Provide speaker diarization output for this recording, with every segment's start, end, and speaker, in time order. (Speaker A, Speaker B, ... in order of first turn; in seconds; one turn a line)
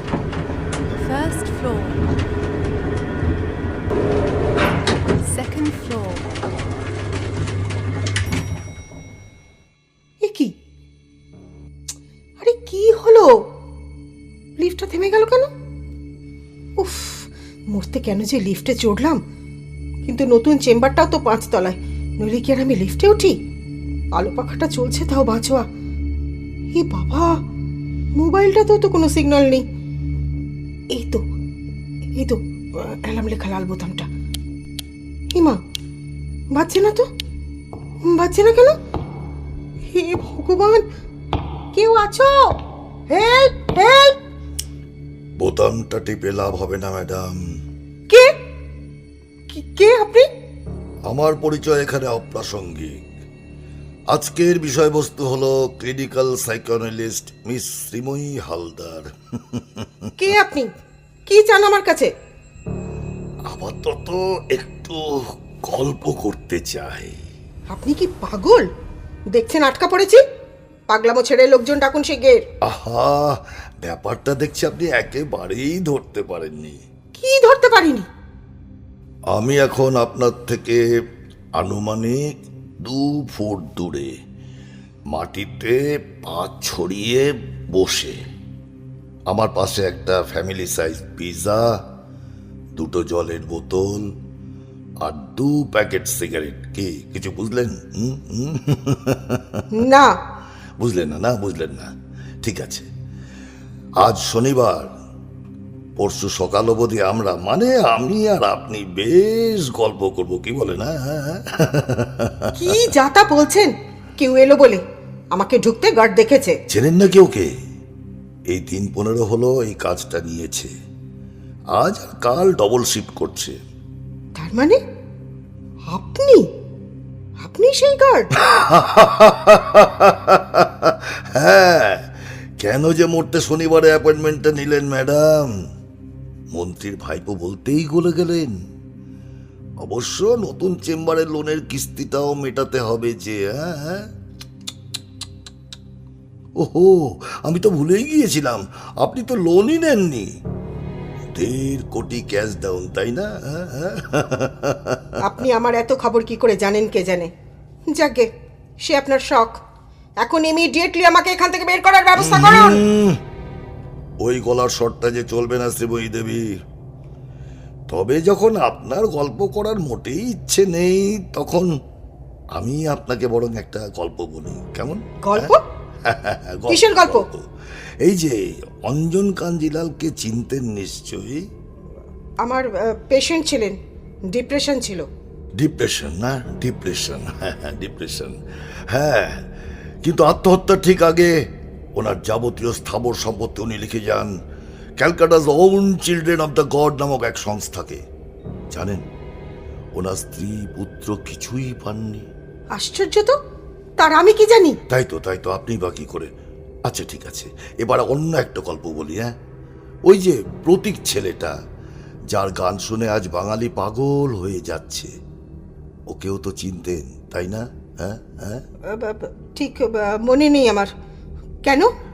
Speaker A: 0.9-2.0
Speaker A: 5.2-6.3
Speaker B: 10.2-10.5
Speaker B: 12.4-13.3
Speaker B: 14.6-15.5
Speaker B: 16.8-19.2
Speaker B: 20.0-23.4
Speaker B: 24.1-25.6
Speaker B: 26.7-27.3
Speaker B: 28.2-29.6
Speaker B: 30.9-31.2
Speaker B: 32.1-34.1
Speaker B: 35.3-35.6
Speaker B: 36.5-37.1
Speaker B: 38.0-38.8
Speaker B: 39.9-40.8
Speaker B: 41.7-44.2
Speaker C: 45.4-47.5
Speaker B: 49.5-50.3
Speaker C: 51.0-53.0
Speaker C: 54.1-60.1
Speaker B: 60.2-60.7
Speaker B: 61.3-62.1
Speaker C: 63.5-67.2
Speaker B: 67.7-68.7
Speaker B: 69.3-70.2
Speaker B: 70.9-72.4
Speaker C: 72.6-76.8
Speaker B: 77.1-78.1
Speaker C: 79.3-80.8
Speaker C: 81.6-82.3
Speaker C: 82.8-84.1
Speaker C: 85.1-88.2
Speaker C: 89.3-91.7
Speaker C: 92.8-94.1
Speaker C: 95.0-99.6
Speaker B: 99.7-100.1
Speaker C: 100.8-101.9
Speaker C: 102.4-102.9
Speaker C: 104.0-104.9
Speaker C: 106.0-112.5
Speaker B: 112.5-114.8
Speaker B: 115.3-116.6
Speaker C: 116.7-117.5
Speaker C: 118.5-120.7
Speaker C: 121.7-123.6
Speaker B: 124.4-124.8
Speaker B: 125.9-126.5
Speaker B: 127.4-128.3
Speaker C: 128.4-132.1
Speaker C: 132.6-135.5
Speaker C: 136.5-138.5
Speaker C: 139.8-144.1
Speaker C: 146.6-150.3
Speaker C: 151.3-155.1
Speaker B: 155.2-157.3
Speaker B: 157.9-158.3
Speaker B: 158.8-159.6
Speaker B: 160.2-162.8
Speaker C: 162.2-163.2
Speaker C: 164.2-166.5
Speaker C: 167.9-171.7
Speaker C: 172.5-175.5
Speaker B: 175.2-175.6
Speaker C: 176.1-177.4
Speaker B: 176.7-177.3
Speaker C: 178.0-181.4
Speaker B: 182.4-183.8
Speaker B: 184.3-185.1
Speaker C: 185.6-188.4
Speaker C: 188.9-189.4
Speaker C: 190.0-191.3
Speaker C: 191.9-194.3
Speaker C: 195.0-198.0
Speaker C: 198.7-199.0
Speaker C: 199.9-202.3
Speaker B: 202.8-203.3
Speaker B: 204.0-204.8
Speaker C: 204.9-206.3
Speaker C: 206.9-209.3
Speaker C: 210.1-211.5
Speaker C: 212.3-215.1
Speaker C: 216.1-218.6
Speaker B: 218.9-220.9